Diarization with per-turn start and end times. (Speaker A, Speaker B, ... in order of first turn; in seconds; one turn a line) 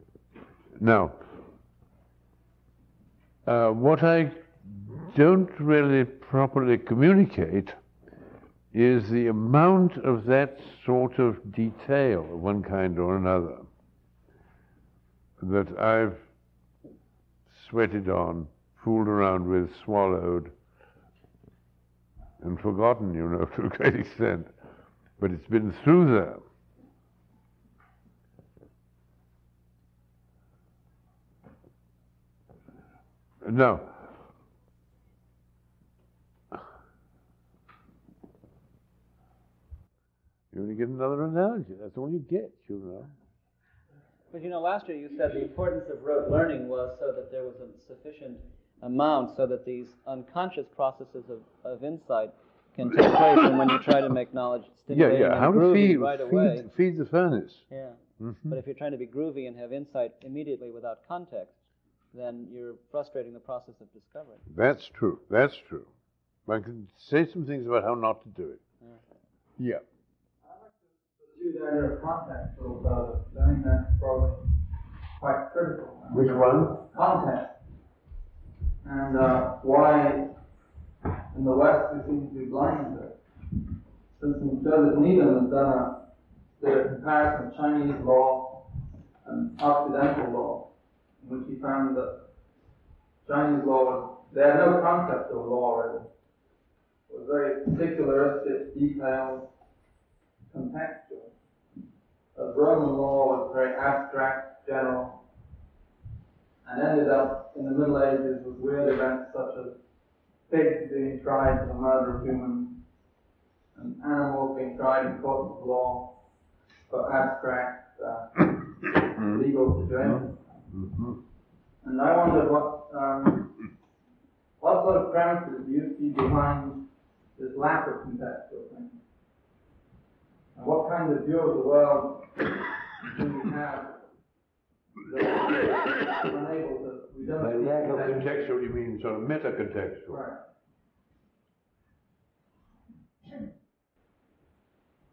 Speaker A: 0.8-1.2
Speaker A: 3.5-7.8
Speaker A: 8.7-13.7
Speaker A: 15.4-16.2
Speaker A: 17.5-20.5
Speaker A: 22.4-24.5
Speaker A: 25.2-26.4
Speaker A: 33.4-34.1
Speaker A: 40.5-43.1
Speaker B: 44.3-56.7
Speaker A: 54.9-57.7
Speaker B: 57.7-61.6
Speaker A: 58.2-58.6
Speaker B: 62.1-64.4
Speaker A: 64.5-65.9
Speaker A: 66.5-68.6
Speaker A: 69.6-69.8
Speaker C: 70.4-74.6
Speaker C: 75.2-77.5
Speaker A: 76.1-76.8
Speaker C: 78.8-80.4
Speaker C: 81.3-83.2
Speaker C: 84.1-86.0
Speaker C: 86.6-88.7
Speaker C: 89.2-92.2
Speaker C: 93.2-96.1
Speaker C: 97.1-99.5
Speaker C: 100.5-101.3
Speaker C: 102.3-105.2
Speaker C: 106.6-109.8
Speaker C: 110.5-112.8
Speaker C: 113.8-116.2
Speaker C: 116.9-120.4
Speaker A: 120.0-121.2
Speaker C: 121.8-123.5
Speaker C: 124.6-129.0
Speaker C: 130.6-134.0
Speaker C: 135.1-138.5
Speaker A: 137.4-140.2
Speaker C: 140.1-140.4